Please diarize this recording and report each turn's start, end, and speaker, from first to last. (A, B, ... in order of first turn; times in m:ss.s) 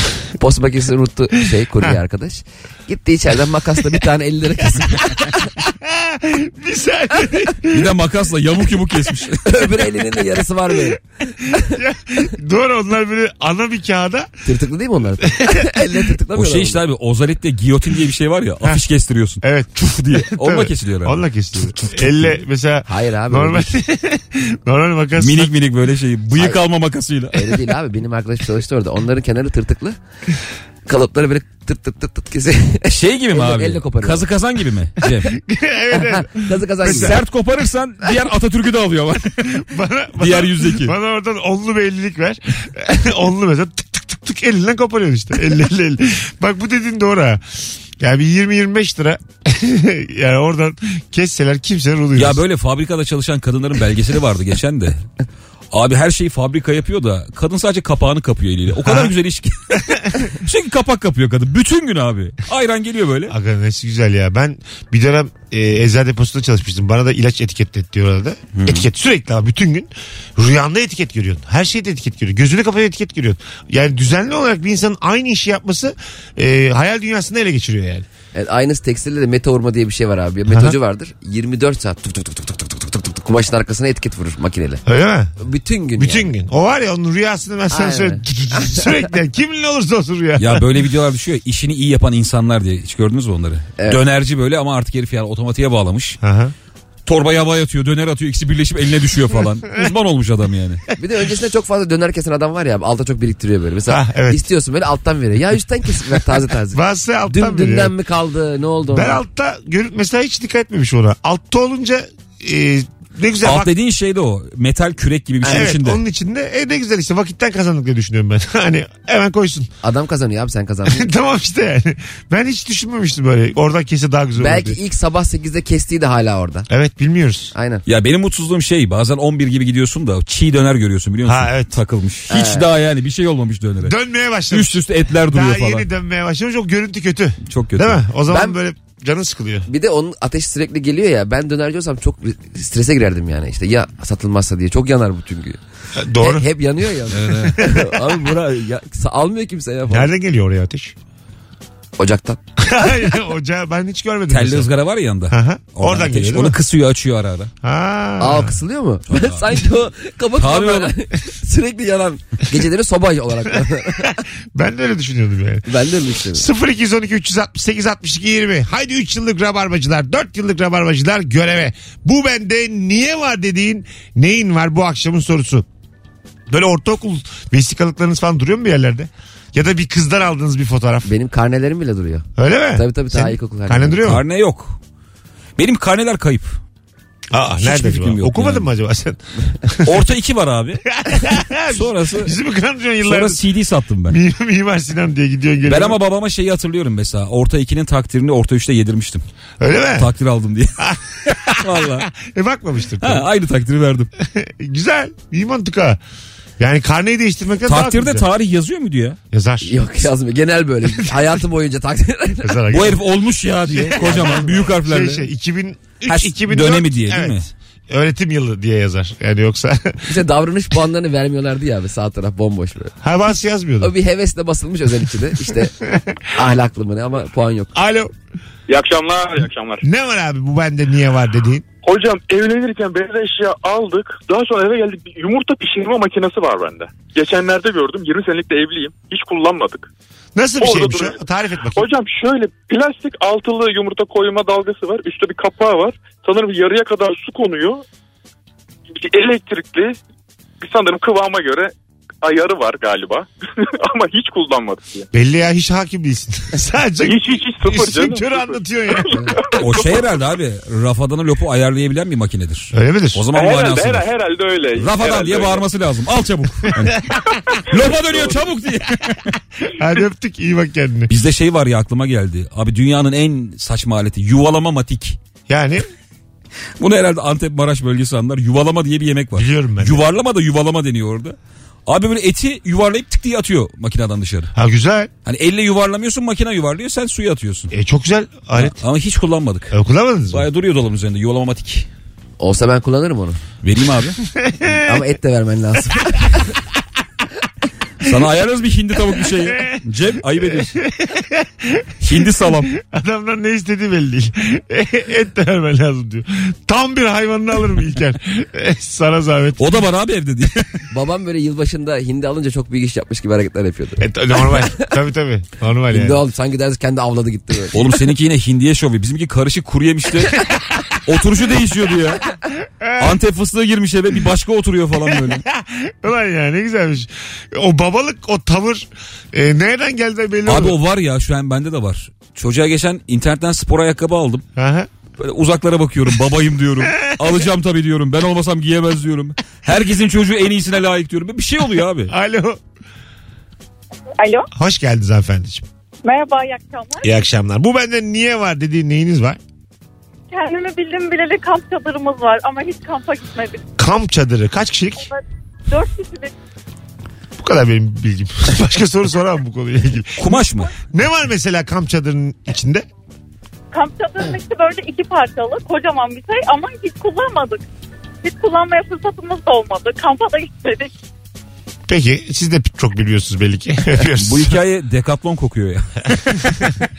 0:00.4-0:05.4 A
0:05.2-0:07.9 B
0:07.7-0:09.8 C
0:09.4-0:11.7 A
0:10.9-0:14.4 B
0:14.4-0:16.8 A
0:15.3-0:16.1 B
0:16.4-0:22.4 C
0:19.4-0:25.5 B
0:22.9-0:23.7 A
0:25.2-0:27.6 C
0:27.3-0:30.0 A
0:30.9-0:34.3 A
0:32.9-0:35.4 C
0:35.3-0:37.2 B
0:36.0-0:37.2 A
0:36.8-0:39.6 C
0:39.4-0:52.4 B
0:40.2-0:41.0 C
0:52.2-0:55.1 C
0:55.7-1:03.4 C
0:58.8-0:59.1 B
1:03.3-1:18.1 B
1:08.6-1:08.9 C
1:18.3-1:24.8 A
1:20.5-1:20.8 B
1:24.9-1:25.3 B
1:25.4-1:26.3 A
1:26.0-1:30.7 B
1:27.7-1:28.9 A
1:30.4-1:36.2 C
1:36.2-1:36.5 B
1:37.1-1:40.8 C
1:41.0-1:49.2 A
1:43.9-1:44.4 B
1:46.7-1:47.9 B
1:48.9-1:53.7 B
1:53.4-1:56.0 C
1:55.4-1:59.7 B
1:59.8-2:01.1 A
2:00.9-2:04.8 B
2:04.4-2:06.7 A
2:06.7-2:07.5 B
2:07.5-2:07.8 A
2:07.9-2:14.0 C
2:11.2-2:11.7 B
2:12.3-2:12.7 A
2:13.8-2:19.7 B
2:14.5-2:15.9 C
2:17.5-2:18.0 C
2:18.3-2:18.6 A
2:19.7-2:25.6 A
2:26.0-2:26.5 B
2:26.2-2:30.1 A
2:27.1-2:27.6 C
2:27.6-2:27.8 B
2:29.9-2:31.0 B
2:32.0-2:32.4 A
2:32.6-2:34.7 B
2:34.3-2:37.5 C
2:35.3-2:36.6 B
2:37.6-2:38.6 B
2:38.2-2:44.2 A
2:39.1-2:39.6 C
2:40.4-2:41.0 C
2:43.6-2:45.8 B
2:45.7-2:46.5 A
2:46.3-2:55.7 B
2:56.5-3:01.1 B
3:01.0-3:04.0 A
3:02.4-3:04.2 B
3:04.0-3:04.8 C
3:05.6-3:06.6 C
3:07.3-3:10.0 B
3:07.6-3:08.7 C
3:09.8-3:10.9 C
3:11.0-3:13.4 B
3:11.7-3:12.3 C
3:13.0-3:14.2 C
3:14.1-3:16.0 B
3:15.7-3:19.2 C
3:19.6-3:20.1 B
3:20.0-3:20.8 C
3:20.8-3:23.2 B
3:21.4-3:22.1 C
3:23.0-3:24.1 C
3:24.2-3:26.0 B
3:26.6-3:28.3 B
3:27.7-3:29.2 C
3:29.3-3:30.0 B
3:29.6-3:32.6 A
3:32.4-3:33.0 B
3:32.7-3:35.3 C
3:33.7-3:40.1 B
3:34.0-3:34.5 A
3:36.1-3:37.5 C
3:40.1-3:42.9 A
3:43.0-3:43.9 B
3:43.8-3:45.8 A
3:45.8-3:46.2 B
3:46.3-3:47.7 A
3:47.8-3:48.1 B
3:48.7-3:49.8 D
3:49.8-3:51.6 B
3:51.8-3:59.9 D
4:00.4-4:01.9 B
4:00.6-4:01.2 D
4:01.7-4:07.8 D
4:08.9-4:10.0 D
4:10.6-4:15.1 D
4:15.1-4:19.4 B
4:17.0-4:20.0 D
4:19.6-4:24.1 C
4:22.7-4:23.2 B
4:23.3-4:25.7 D
4:24.8-4:29.3 C
4:29.7-4:31.1 B
4:31.1-4:35.2 C
4:35.5-4:35.8 B
4:36.8-4:44.5 C
4:39.4-4:40.0 B
4:44.6-4:45.1 B
4:45.3-4:47.7 C
4:47.7-4:48.8 B
4:48.6-4:49.7 C
4:49.7-4:50.4 B
4:50.3-4:51.9 C
4:52.4-4:53.4 A
4:53.6-4:54.2 C
4:54.3-4:55.0 B
4:54.8-4:56.5 A
4:58.0-5:00.8 C
4:59.4-4:59.8 B
5:00.5-5:09.8 B
5:02.0-5:02.7 C
5:09.6-5:10.7 C
5:10.9-5:14.8 A
5:14.0-5:16.2 B
5:15.9-5:17.8 A
5:17.7-5:20.4 C
5:21.0-5:22.2 C
5:22.6-5:23.2 B
5:23.0-5:25.4 C
5:25.1-5:30.8 B
5:30.5-5:34.4 C
5:34.6-5:34.9 B
5:35.2-5:42.1 C
5:36.8-5:37.4 B
5:42.1-5:42.6 B
5:44.2-5:44.5 E
5:44.5-5:45.7 B
5:46.0-5:47.1 E
5:47.0-5:49.4 B
5:50.3-5:53.6 E
5:53.8-5:55.1 B
5:55.0-5:56.3 E
5:57.4-6:00.3 B
6:00.2-6:00.7 C
6:00.9-6:02.9 B
6:03.7-6:07.6 E
6:08.2-6:10.9 E
6:11.9-6:14.6 B
6:14.2-6:16.5 C
6:16.2-6:16.7 B